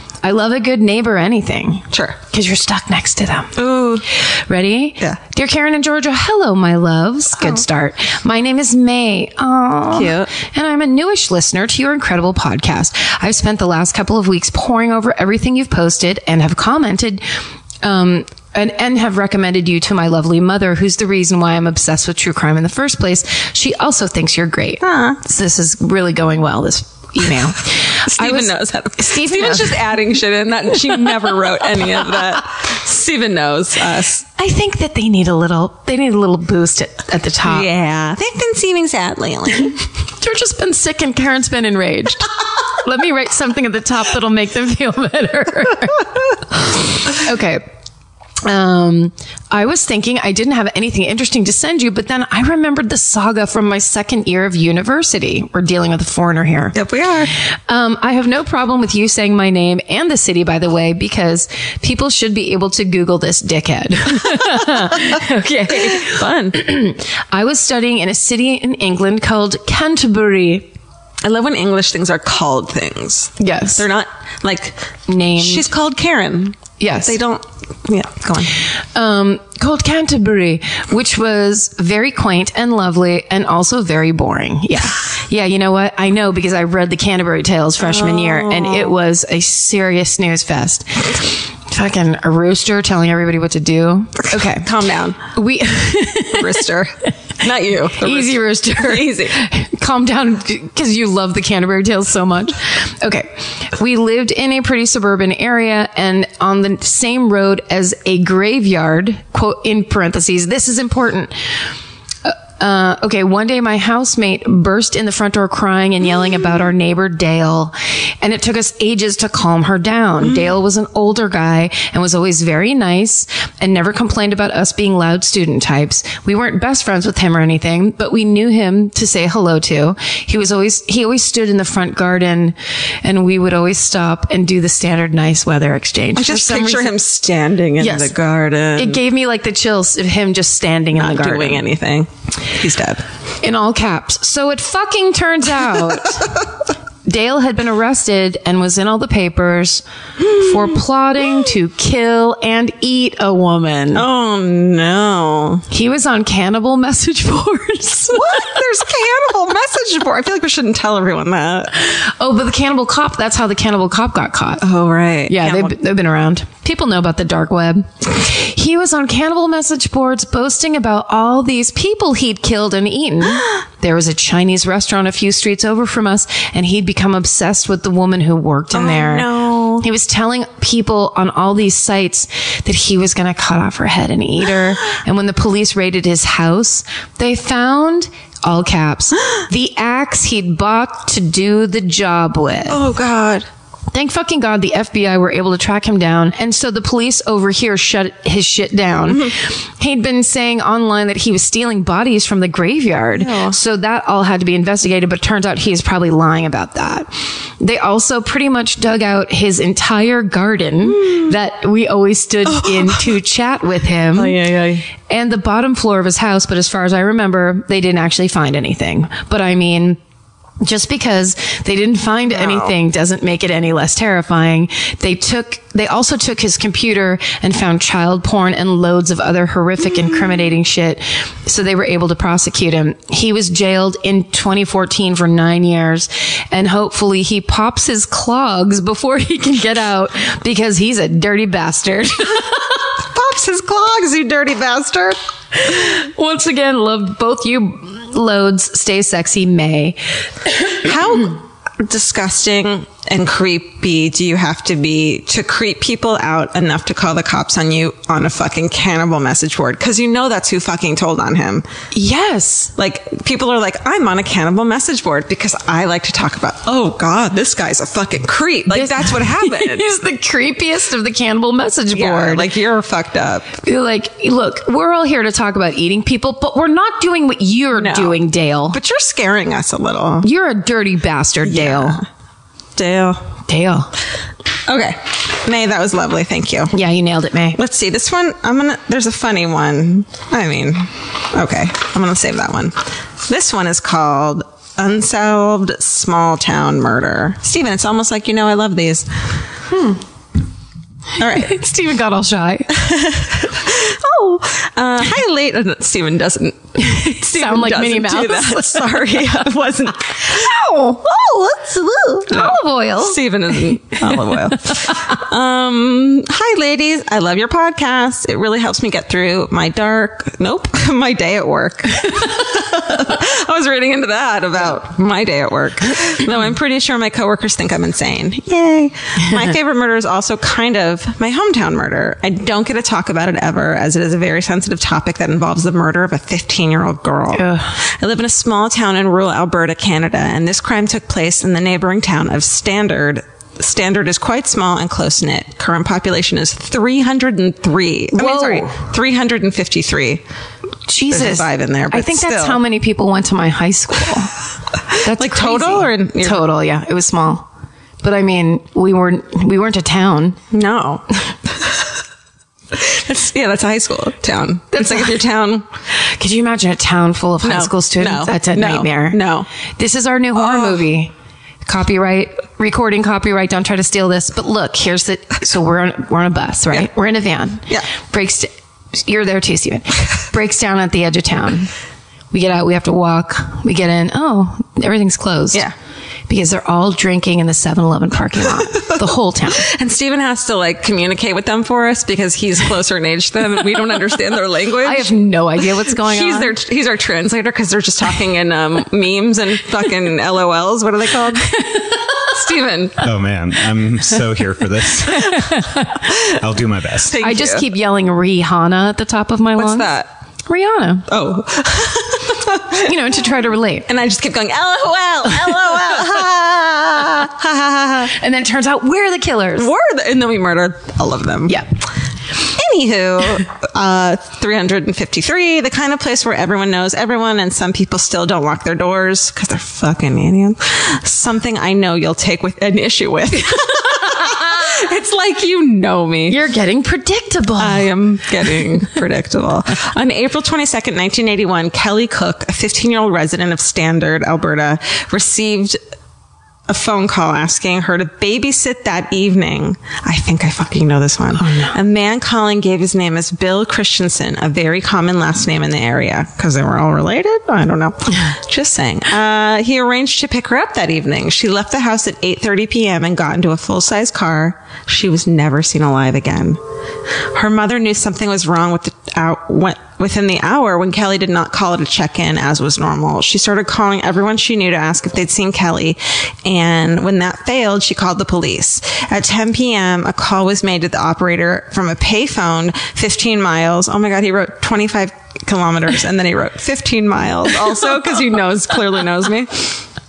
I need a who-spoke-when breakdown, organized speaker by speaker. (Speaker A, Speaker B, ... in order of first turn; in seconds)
Speaker A: 0.2-3.6, 4.2-17.2, 17.8-29.9, 34.4-37.7, 40.2-47.6, 48.4-56.8, 57.4-70.7, 73.4-73.9, 75.1-75.7, 76.8-77.2, 78.7-94.7, 95.3-96.6, 98.0-111.6, 112.2-136.9, 137.8-138.1, 138.8-141.7, 143.4-146.4, 147.1-154.1, 155.7-158.6, 161.8-164.7, 165.3-192.8, 193.9-214.4, 215.1-220.0, 220.6-242.5, 245.6-250.0, 261.9-262.7, 268.7-272.5, 273.6-278.8, 280.2-282.0, 283.5-283.9, 286.7-287.6, 299.7-300.0, 301.2-302.8, 306.8-309.4, 312.3-314.4, 337.3-337.8, 348.1-348.8, 350.9-354.3, 355.0-357.5, 358.0-360.4, 364.7-365.2, 366.0-369.2, 369.8-371.1, 371.6-381.7, 382.3-385.6, 386.3-389.7, 394.8-396.6, 405.3-405.8, 407.2-409.9, 410.5-411.1, 412.7-413.9, 418.1-419.7, 436.3-437.9, 451.4-451.8
Speaker B: 1.9-2.2, 3.5-4.0, 9.9-10.3, 24.8-25.2, 28.1-34.2, 37.4-39.8, 56.7-57.3, 64.3-65.2, 65.7-66.6, 71.2-78.6, 87.8-88.9, 94.3-95.2, 96.3-99.4, 136.2-139.0, 140.9-143.0, 153.9-155.7, 158.1-161.7, 164.6-165.8, 178.7-179.9, 192.7-193.5, 203.2-203.6, 212.5-213.0, 214.2-214.9, 222.3-222.7, 243.0-245.2, 250.8-261.6, 262.8-269.9, 271.9-273.6, 277.8-280.3, 281.4-282.0, 282.8-283.2, 284.7-286.7, 287.6-299.1, 301.2-301.6, 302.7-350.2, 351.1-352.6, 355.1-356.4, 360.5-361.1, 362.7-365.7, 367.4-369.5, 370.4-370.8, 389.5-395.1, 395.9-401.5, 402.3-403.1, 405.9-406.4, 407.0-407.7, 409.6-410.1, 411.1-412.9, 413.9-418.1, 419.6-421.6, 422.4-436.4, 437.6-445.8, 446.7-466.6, 467.3-489.9
Speaker C: 403.0-405.6, 406.3-407.1